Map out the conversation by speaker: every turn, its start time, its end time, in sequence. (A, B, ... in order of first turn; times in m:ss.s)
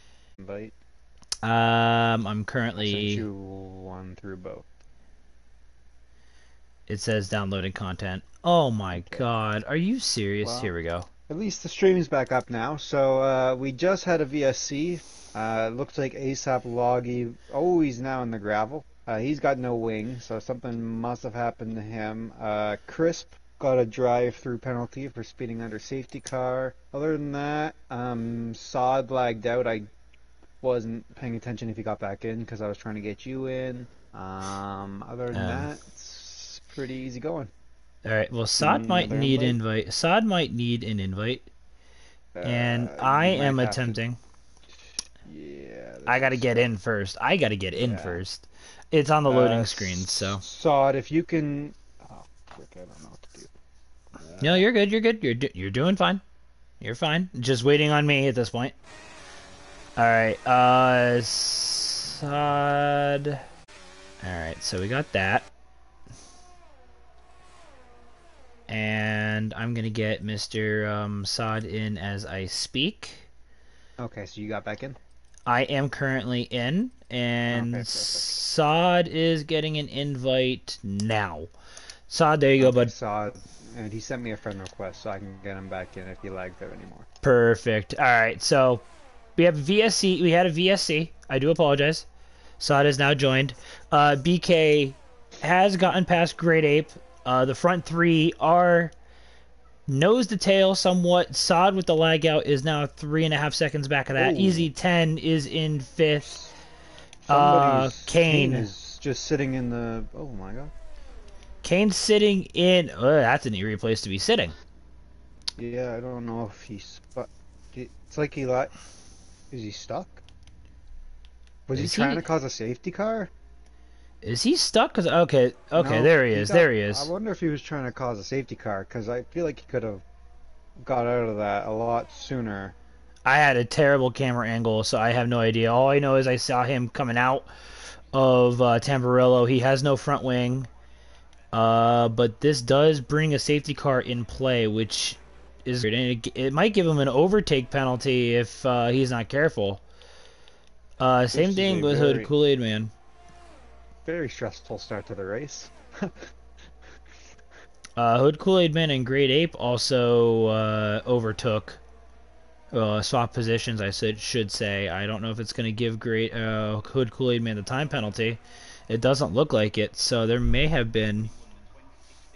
0:00.4-0:00.7 A
0:01.4-0:03.2 B
0:02.8-0:04.7 A
0:06.9-0:11.1 B
0:08.9-0:09.2 A
0:10.4-0:10.7 A
0:11.3-0:29.9 A
0:30.6-0:37.5 A
0:35.3-0:35.7 B
0:38.0-0:41.5 B
0:38.6-0:39.6 A
0:42.3-0:44.0 A
0:42.4-0:44.2 B
0:45.2-0:46.6 A
0:46.0-0:50.4 B
0:47.8-0:48.2 A
0:49.3-0:53.5 A
0:54.2-0:54.7 A
0:54.4-0:56.2 B
0:56.8-0:58.7 B
1:00.0-1:03.4 B
1:04.2-1:05.5 B
1:08.7-1:13.3 B
1:14.0-1:15.0 A
1:15.4-1:21.5 B
1:17.5-1:18.4 A
1:22.1-1:22.9 B
1:22.6-1:27.1 A
1:27.2-1:28.8 B
1:29.4-1:32.0 B
1:32.6-1:38.9 B
1:39.9-1:46.4 B
1:44.1-1:44.7 A
1:46.2-1:46.5 A
1:47.2-1:50.7 A
1:47.3-1:48.7 B
1:51.6-1:54.5 B
1:55.6-1:58.7 A
1:59.5-2:00.2 A
2:01.7-2:03.3 A
2:01.7-2:02.2 B
2:04.2-2:07.1 B
2:05.7-2:10.0 A
2:10.8-2:12.7 A
2:13.2-2:17.5 B
2:18.1-2:20.7 B
2:21.5-2:29.8 B
2:31.0-2:32.9 B
2:31.3-2:32.3 A
2:34.0-2:36.3 A
2:38.0-2:41.8 B
2:42.7-2:51.3 B